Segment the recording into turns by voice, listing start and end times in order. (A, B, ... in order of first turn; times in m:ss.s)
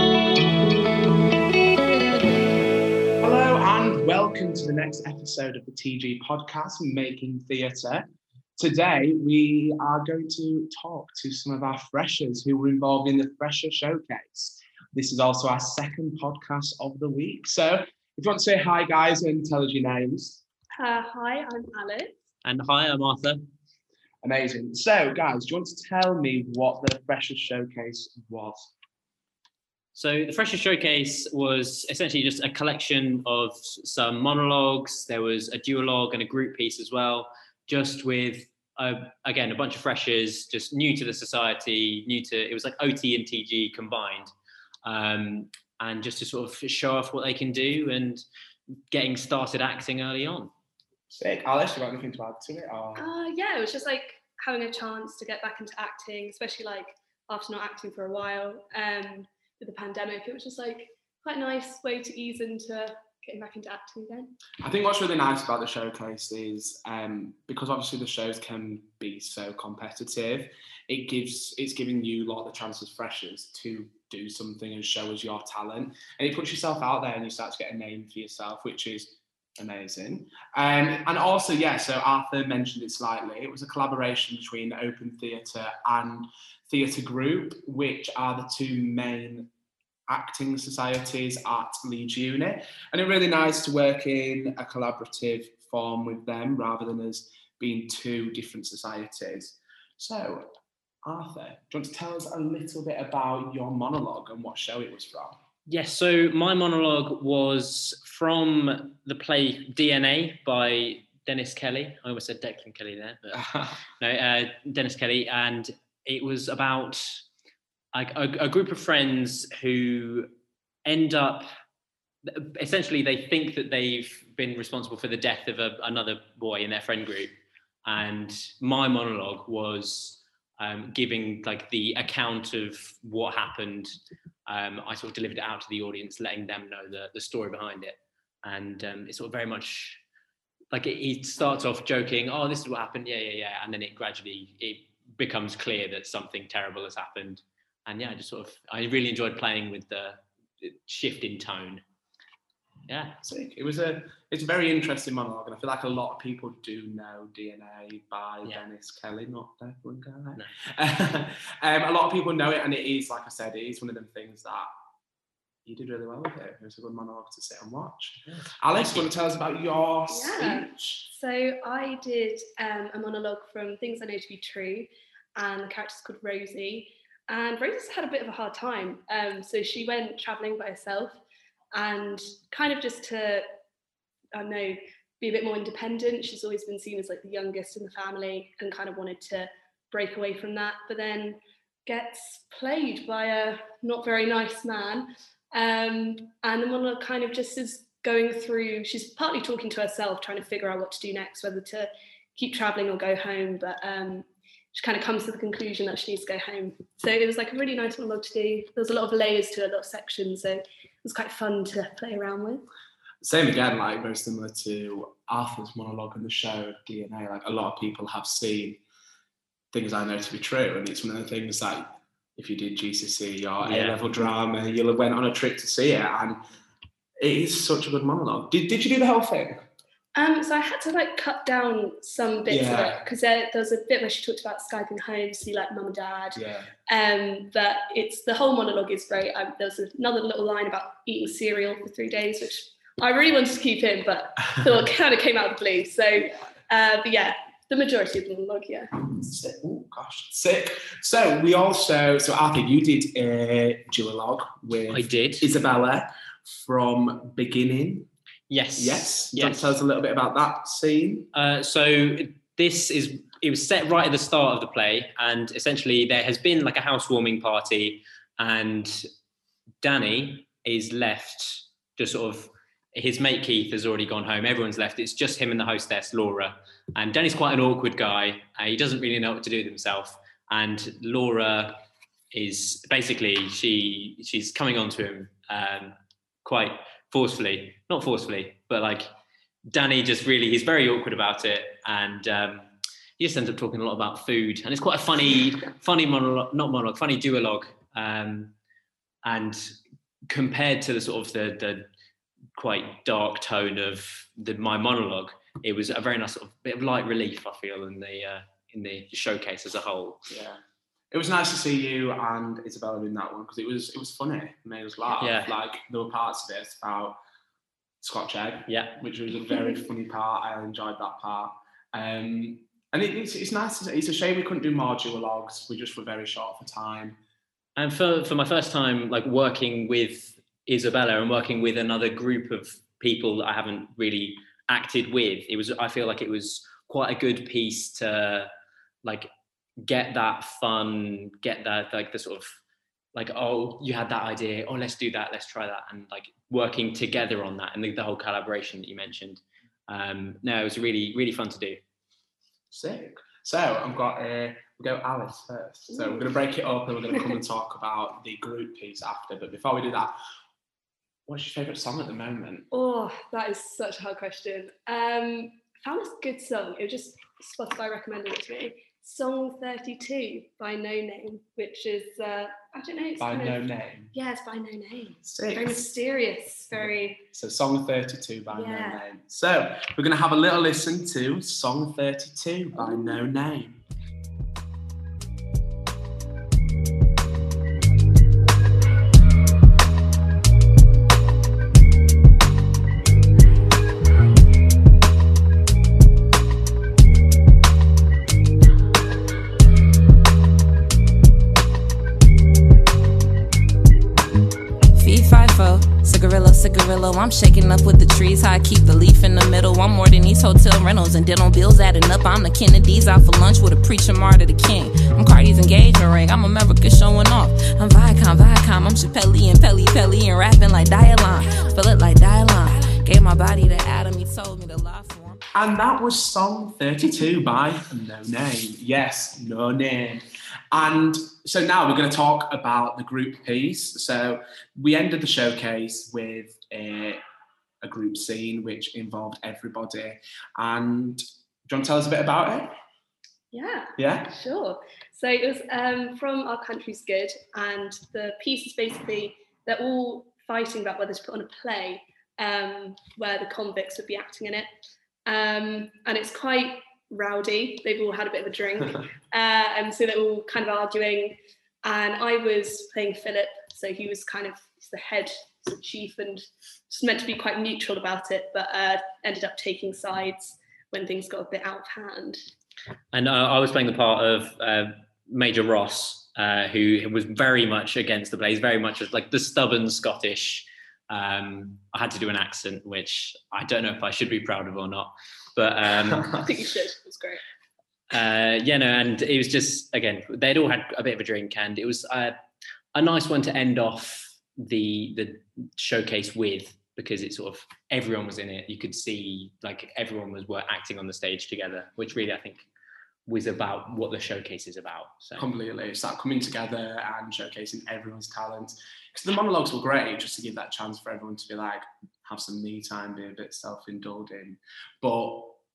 0:03.2-0:08.0 A
0:08.6-0:20.4 A
0:20.8-0:22.2 B
0:22.4-0:23.4 C
0:24.2-0:28.7 A
0:30.0-0:44.3 C
0:44.8-0:48.2 C
0:48.9-0:50.5 C
0:51.1-0:53.1 A
0:53.0-1:04.3 B
1:04.6-1:29.5 A
1:30.1-1:40.5 A
1:41.0-1:45.4 A
1:45.7-1:53.4 C
1:53.3-1:53.8 A
1:54.0-1:57.0 C
1:57.9-2:00.3 C
2:00.9-2:01.4 C
2:02.3-2:07.4 C
2:07.9-2:13.9 C
2:14.5-2:20.0 C
2:20.7-2:31.8 C
2:32.9-2:33.2 C
2:33.2-2:44.7 A
2:45.7-2:51.1 A
2:48.3-2:49.1 C
2:50.1-3:01.2 B
3:01.7-3:03.4 B
3:04.4-3:32.6 B
3:33.2-3:38.8 A
3:39.7-3:41.8 A
3:42.4-3:46.4 A
3:43.6-3:44.1 C
3:47.2-3:49.6 A
3:50.2-4:08.9 B
3:52.5-3:53.0 A
3:56.4-3:56.7 A
4:09.1-4:18.1 A
4:14.9-4:15.5 C
4:18.5-4:19.8 C
4:18.8-4:21.3 A
4:21.3-4:29.0 C
4:29.8-4:41.8 C
4:42.3-4:45.9 C
4:46.4-4:49.1 C
4:49.7-4:58.5 C
4:59.2-4:59.7 C
5:00.3-5:01.9 C
5:02.6-5:10.2 C
5:10.3-5:10.6 A
5:11.1-5:17.2 A
5:15.2-5:15.5 C
5:18.0-5:27.2 A
5:18.7-5:19.0 C
5:27.8-5:38.5 C
5:39.0-5:39.3 C
5:39.8-5:42.6 C
5:43.2-5:51.8 C
5:52.7-6:00.1 A
5:55.9-5:56.3 B
6:01.3-6:02.6 A
6:02.7-6:17.2 B
6:13.2-6:14.1 A
6:15.2-6:15.9 A
6:16.7-6:23.8 A
6:18.5-6:19.0 B
6:22.8-6:23.2 B
6:45.0-7:05.4 D
7:05.5-7:17.2 A
7:17.8-7:22.7 A
7:23.5-7:34.7 B
7:24.0-7:24.3 A
7:35.3-7:52.4 B
7:53.1-8:06.4 C
8:06.4-8:07.4 B
8:08.1-8:12.3 C
8:12.9-8:22.7 C
8:23.3-8:25.5 C
8:25.4-8:35.6 A